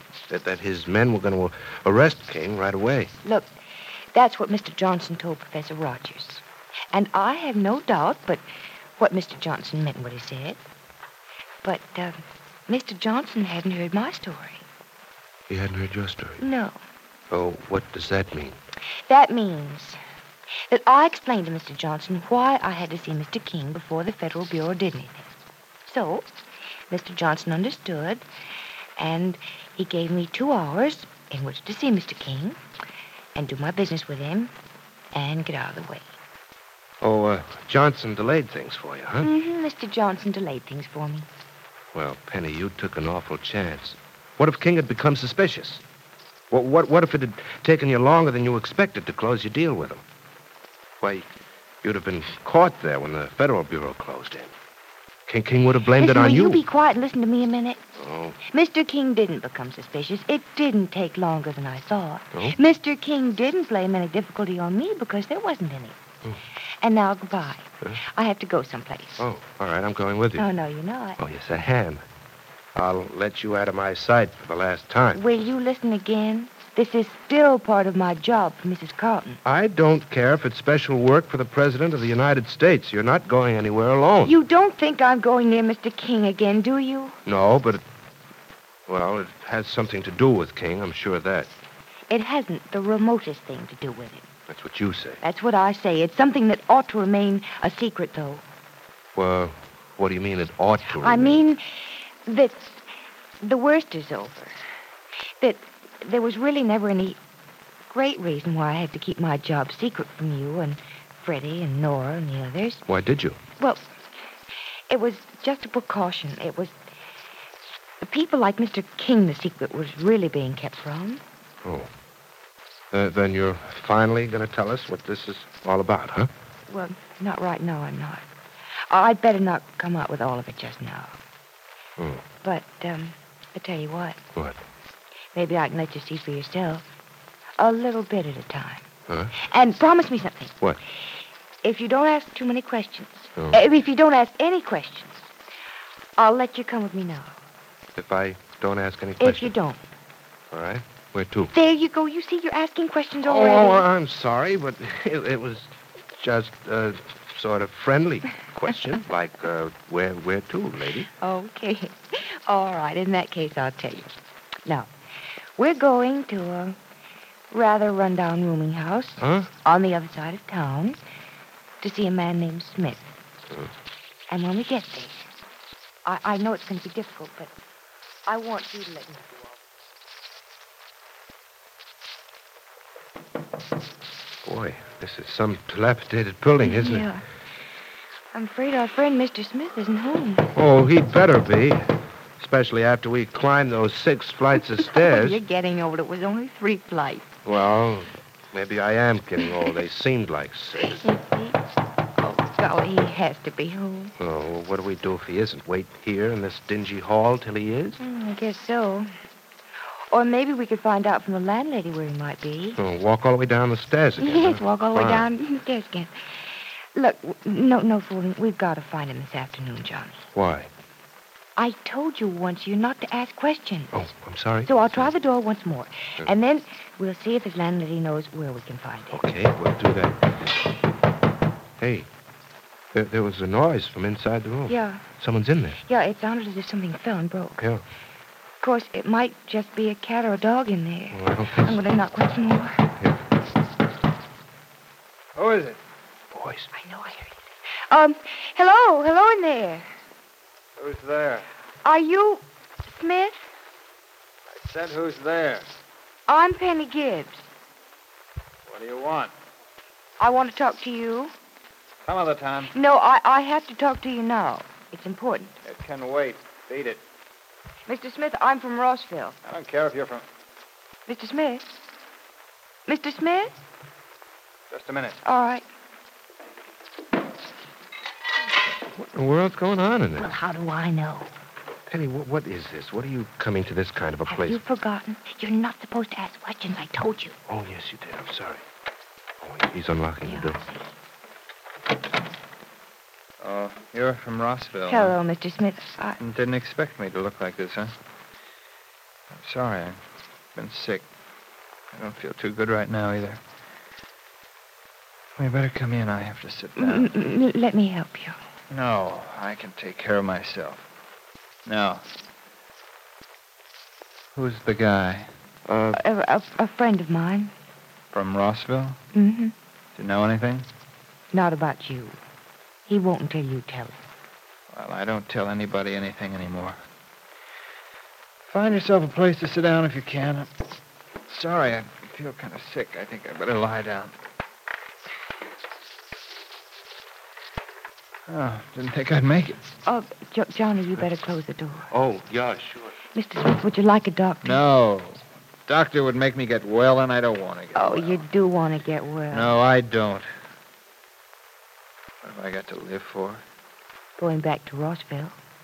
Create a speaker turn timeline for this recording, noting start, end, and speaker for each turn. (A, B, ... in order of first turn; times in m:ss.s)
0:00.3-0:03.1 A
0:03.2-0:03.5 B
0:04.1-0:06.4 B
0:06.9-0:08.4 B
0:09.0-0:10.6 B
0:11.6-0:14.6 B
0:15.5-0:16.4 A
0:16.4-0:16.8 B
0:17.3-0:18.6 A
0:19.1-0:20.0 B
0:20.7-0:25.3 B
0:25.8-0:26.3 B
0:26.9-0:28.2 B
0:29.0-0:32.6 B
0:33.3-0:34.5 B
0:35.1-0:36.0 B
0:37.0-0:39.3 A
0:39.2-0:41.3 B
0:41.9-0:45.8 A
0:46.5-0:50.0 A
0:51.0-0:51.3 A
0:51.8-0:54.5 A
0:55.3-0:56.6 A
0:56.0-0:57.8 B
0:58.0-0:58.4 A
0:58.5-1:06.0 B
1:06.8-1:09.2 B
1:09.2-1:10.5 A
1:10.4-1:11.2 B
1:11.2-1:12.0 A
1:12.7-1:15.2 A
1:15.1-1:19.4 B
1:19.4-1:24.4 A
1:24.2-1:27.2 B
1:27.2-1:27.8 A
1:28.9-1:31.5 A
1:32.1-1:34.3 B
1:34.5-1:35.2 A
1:35.2-1:38.4 B
1:39.1-1:41.4 A
1:41.0-1:41.6 B
1:42.3-1:42.8 B
1:43.4-1:44.5 B
1:45.4-1:47.2 B
1:47.9-1:52.8 B
1:52.9-1:53.4 A
1:53.6-1:53.8 B
1:54.9-1:56.7 B
1:58.0-2:01.2 B
2:01.6-2:01.9 A
2:02.9-2:06.3 A
2:06.7-2:08.2 B
2:08.9-2:11.1 B
2:12.0-2:12.2 A
2:12.4-2:14.2 B
2:15.3-2:16.8 B
2:17.6-2:18.8 B
2:19.4-2:20.5 B
2:21.6-2:25.3 B
2:26.2-2:27.3 B
2:28.0-2:29.5 A
2:29.2-2:29.8 B
2:30.5-2:31.5 A
2:31.5-2:33.9 B
2:33.2-2:41.1 A
2:41.2-2:44.1 B
2:45.6-2:46.8 B
2:47.5-2:51.0 B
2:49.2-2:49.5 A
2:51.8-2:53.1 B
2:54.3-2:55.2 B
2:56.0-2:57.5 B
2:58.3-2:59.4 B
3:04.4-3:07.1 A
3:06.6-3:07.2 B
3:08.3-3:10.5 B
3:10.5-3:11.8 A
3:12.4-3:15.4 A
3:14.8-3:17.2 B
3:17.4-3:21.1 A
3:20.9-3:21.6 B
3:22.2-3:24.1 B
3:24.2-3:28.0 A
3:28.0-3:29.1 B
3:30.1-3:32.8 B
3:32.8-3:35.3 A
3:34.2-3:36.1 B
3:37.0-3:40.2 B
3:40.3-3:40.7 A
3:41.6-3:44.0 B
3:43.9-3:45.1 A
3:44.6-3:49.2 B
3:49.1-3:50.2 A
3:51.8-3:52.1 A
3:52.9-3:55.8 A
3:54.7-3:55.0 B
3:55.8-3:57.6 B
3:57.6-3:57.8 A
3:58.6-4:02.7 B
4:01.1-4:01.8 A
4:05.3-4:05.8 C
4:06.3-4:06.7 A
4:06.7-4:07.4 B
4:07.9-4:09.9 B
4:10.8-4:11.5 C
4:11.8-4:13.4 B
4:14.5-4:15.7 C
4:16.3-4:17.5 B
4:18.6-4:19.3 C
4:20.2-4:21.3 B
4:22.0-4:22.7 C
4:22.7-4:25.6 B
4:25.6-4:27.0 C
4:27.9-4:29.4 B
4:29.4-4:30.2 C
4:31.0-4:31.7 B
4:32.9-4:33.5 B
4:34.7-4:35.2 C
4:35.2-4:35.6 B
4:38.9-4:40.3 A
4:40.2-4:41.3 B
4:41.9-4:44.6 A
4:44.3-4:47.4 B
4:47.5-4:48.6 A
4:49.4-4:50.6 A
4:50.2-4:50.9 B
4:53.4-4:55.2 C
4:54.9-4:56.2 B
4:56.2-4:57.9 C
4:59.3-5:00.0 C
5:00.5-5:01.1 C
5:01.9-5:03.4 C
5:05.4-5:07.1 C
5:06.8-5:08.4 B
5:08.7-5:10.8 C
5:11.6-5:12.1 C
5:14.3-5:15.3 C
5:15.7-5:16.0 A
5:16.0-5:17.5 B
5:18.1-5:19.0 C
5:19.1-5:19.5 B
5:19.9-5:20.7 C
5:21.3-5:22.2 B
5:22.9-5:24.0 B
5:24.7-5:26.8 C
5:28.5-5:30.5 C
5:31.2-5:34.2 C
5:38.3-5:39.6 C
5:39.8-5:41.9 B
5:41.9-5:43.0 A
5:43.1-5:44.6 B
5:44.4-5:48.2 C
5:47.7-5:49.5 B
5:49.3-5:50.3 C
5:52.2-5:53.4 C
5:54.2-5:55.4 B